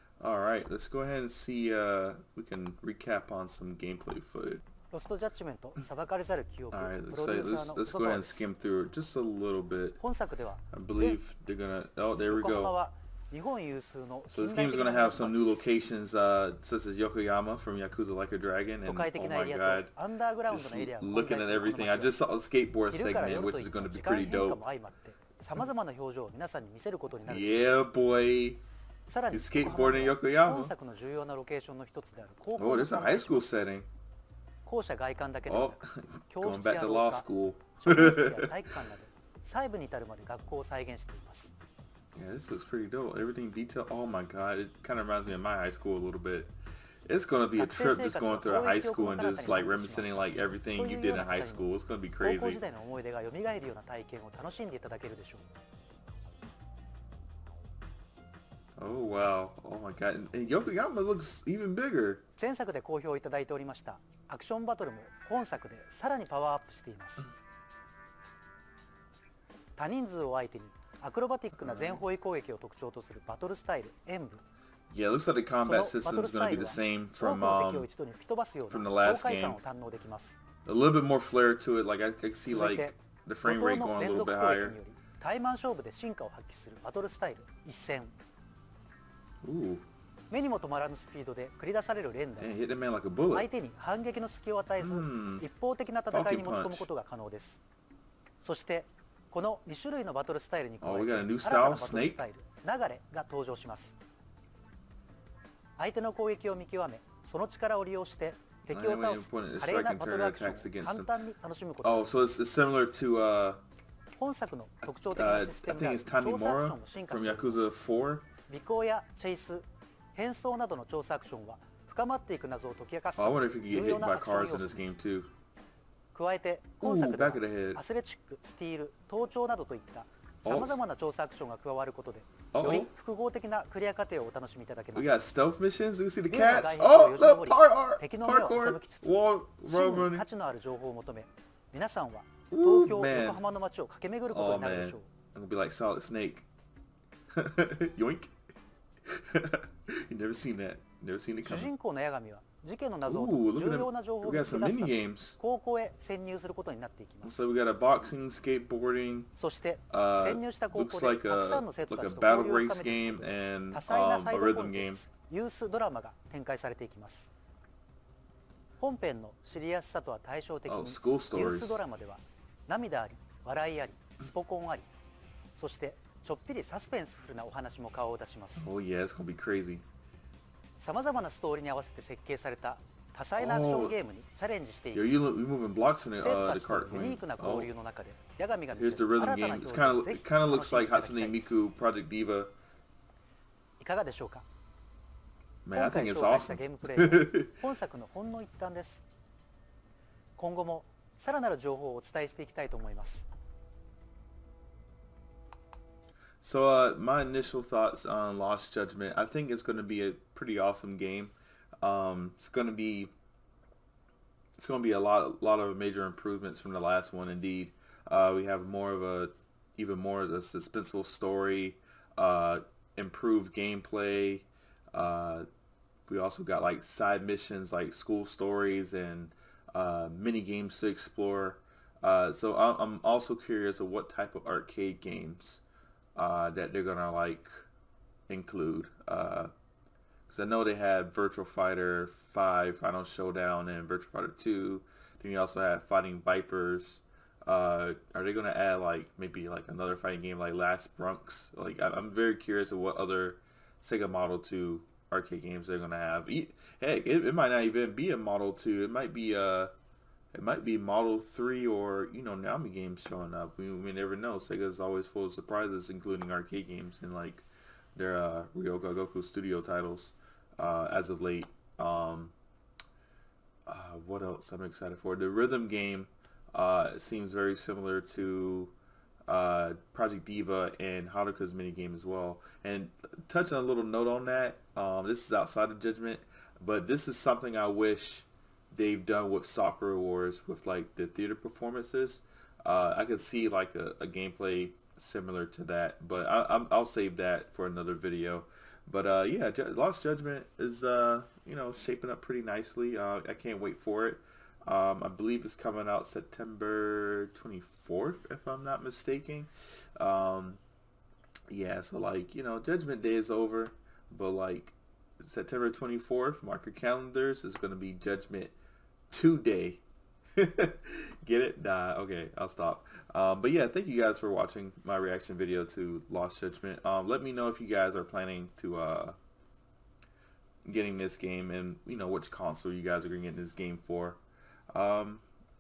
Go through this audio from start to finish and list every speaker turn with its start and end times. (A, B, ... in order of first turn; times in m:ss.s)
0:00.2-0:04.6 A
0:04.9-0:08.5 B
0:06.7-0:10.0 A
0:10.0-0:11.2 B
0:10.7-0:12.7 A
0:12.3-0:15.7 B
0:14.3-0:19.9 A
0:18.8-0:22.2 B
0:20.5-0:24.6 A
0:22.9-0:27.8 B
0:27.2-0:28.6 A
0:29.0-0:33.6 B
0:29.3-0:30.7 A
0:32.6-0:33.9 A
0:34.6-0:41.5 B
0:35.5-0:38.6 A
0:42.1-0:46.5 A
0:47.1-0:52.6 A
0:47.6-0:55.5 B
0:58.8-1:02.2 A
1:02.4-1:07.3 B
1:09.8-1:14.4 B
1:11.6-1:12.0 A
1:14.9-1:17.9 A
1:15.6-1:20.4 B
1:18.7-1:19.6 A
1:20.6-1:24.8 A
1:22.5-1:28.1 B
1:29.4-1:29.8 A
1:30.3-1:32.6 B
1:32.4-1:33.5 A
1:33.3-1:37.6 B
1:34.8-1:35.4 A
1:36.1-1:36.9 A
1:38.4-1:44.0 B
1:40.8-1:42.2 A
1:45.8-1:52.3 B
1:48.7-1:51.2 A
1:51.8-1:53.6 A
1:54.2-1:57.8 B
1:55.1-1:58.3 A
1:58.5-2:05.0 B
2:03.2-2:05.3 A
2:06.1-2:15.2 B
2:06.8-2:07.8 A
2:10.4-2:10.8 A
2:12.5-2:12.9 A
2:14.9-2:20.2 A
2:16.3-2:25.1 B
2:22.5-2:23.4 A
2:24.3-2:26.4 A
2:27.3-2:28.3 A
2:29.1-2:31.7 A
2:31.4-2:37.5 B
2:33.0-2:35.4 A
2:37.2-2:39.3 A
2:39.3-2:47.3 B
2:39.9-2:45.0 A
2:48.8-2:54.9 B
2:50.7-2:51.8 A
2:55.5-2:58.7 B
2:58.6-2:59.8 A
3:00.8-3:05.3 B
3:03.4-3:04.0 A
3:04.9-3:07.7 A
3:06.2-3:11.6 B
3:08.7-3:12.5 A
3:13.8-3:14.4 B
3:15.6-3:17.5 A
3:15.7-3:19.0 B
3:20.4-3:23.3 B
3:26.4-3:33.1 A
3:34.6-3:45.5 A
3:46.1-3:55.6 A
3:56.2-3:57.6 A
3:58.3-3:59.5 A
4:00.3-4:19.7 A
4:20.3-4:32.3 A
4:33.6-4:38.7 A
4:39.3-5:10.6 A
5:11.5-5:18.6 A
5:19.1-5:19.8 A
5:20.4-5:29.2 A
5:30.6-5:34.2 A
5:34.7-5:35.2 A